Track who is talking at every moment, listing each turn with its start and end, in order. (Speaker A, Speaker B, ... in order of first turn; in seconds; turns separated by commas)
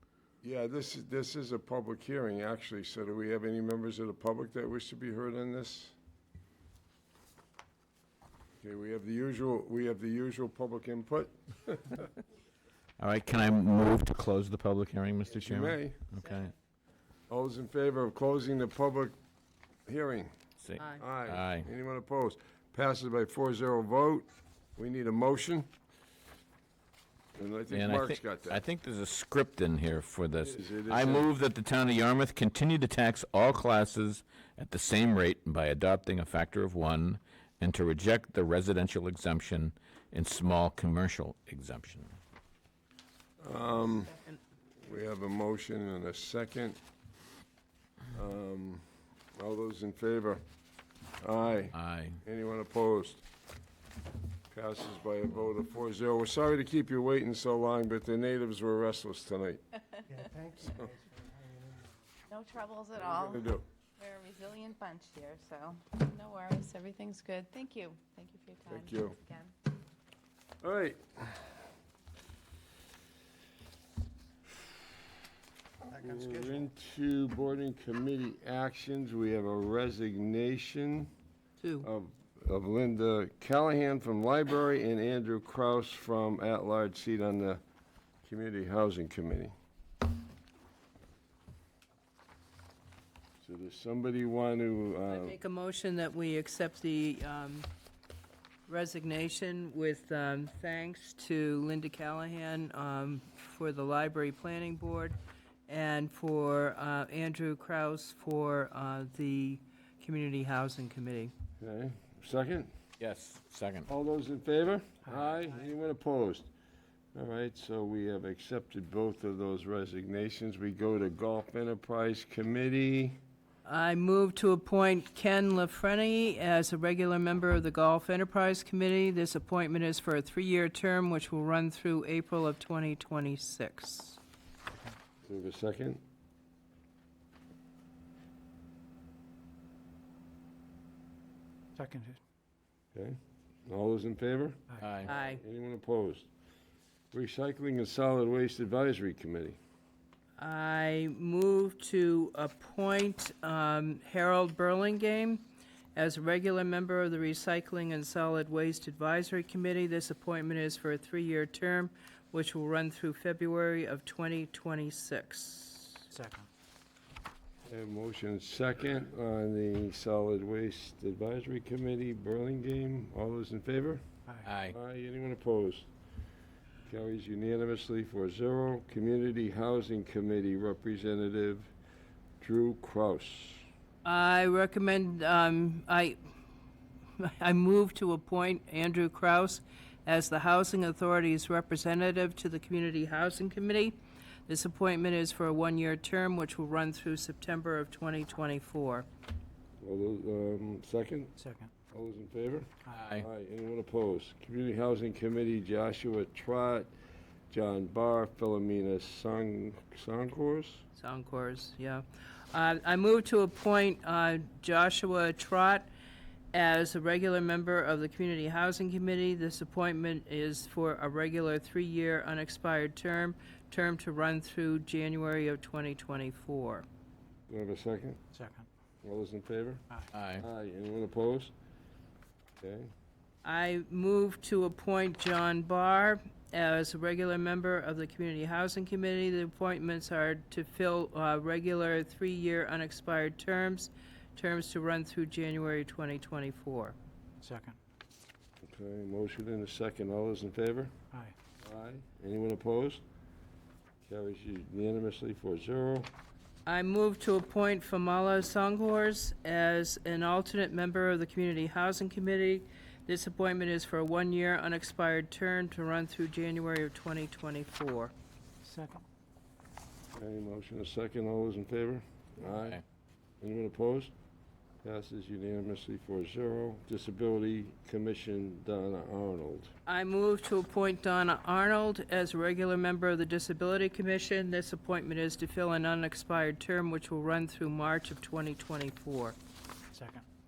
Speaker A: 0.4-6.0, Speaker A: 8.6-12.1, Speaker B: 13.0-16.5, Speaker A: 15.3-16.0, Speaker A: 17.3-19.1, Speaker A: 19.9-20.3, Speaker B: 20.6-21.7, Speaker C: 20.8-21.0, Speaker A: 21.0-25.7, Speaker A: 27.4-28.6, Speaker B: 27.7-42.1, Speaker A: 30.4-31.3, Speaker A: 43.4-44.2, Speaker A: 44.8-46.8, Speaker A: 48.1-48.8, Speaker A: 49.3-50.4, Speaker A: 51.2-53.2, Speaker B: 51.7-52.2, Speaker A: 54.5-59.6, Speaker A: 60.2-61.0, Speaker D: 62.3-63.4, Speaker A: 63.0-63.6, Speaker D: 64.0-69.5, Speaker A: 68.7-69.2, Speaker A: 70.6-71.5, Speaker A: 75.9-81.1, Speaker C: 81.6-81.9, Speaker A: 81.8-87.6, Speaker A: 88.2-89.5, Speaker A: 93.4-95.4, Speaker C: 95.1-97.7, Speaker C: 98.7-105.2, Speaker C: 105.7-111.3, Speaker A: 111.6-112.7, Speaker B: 113.0-113.9, Speaker A: 113.9-116.5, Speaker A: 117.1-123.2, Speaker C: 123.6-134.2, Speaker A: 135.2-136.0, Speaker E: 141.8-142.2, Speaker A: 142.9-146.3, Speaker B: 144.8-145.1, Speaker C: 145.1-145.4, Speaker A: 147.1-149.6, Speaker C: 150.4-166.1, Speaker E: 166.1-166.5, Speaker A: 167.7-174.0, Speaker B: 174.4-174.8, Speaker A: 174.7-175.9, Speaker A: 176.8-181.7, Speaker A: 182.4-183.7, Speaker C: 184.0-186.2, Speaker C: 187.2-199.1, Speaker A: 199.8-201.3, Speaker E: 201.4-201.7, Speaker A: 201.9-206.9, Speaker B: 202.9-203.3, Speaker A: 207.5-210.8, Speaker C: 210.9-215.9, Speaker C: 216.5-226.8, Speaker A: 227.5-228.2, Speaker E: 228.3-228.7, Speaker A: 229.0-229.8, Speaker B: 230.1-230.4, Speaker A: 230.4-231.5, Speaker A: 232.6-232.9, Speaker C: 233.4-246.9, Speaker E: 247.4-247.8, Speaker A: 248.6-250.9, Speaker A: 251.6-253.0, Speaker A: 254.0-256.1, Speaker C: 256.6-268.1, Speaker E: 268.6-269.0, Speaker A: 270.1-272.8, Speaker A: 273.4-274.1, Speaker A: 274.8-279.7, Speaker C: 279.9-289.4, Speaker E: 289.9-290.2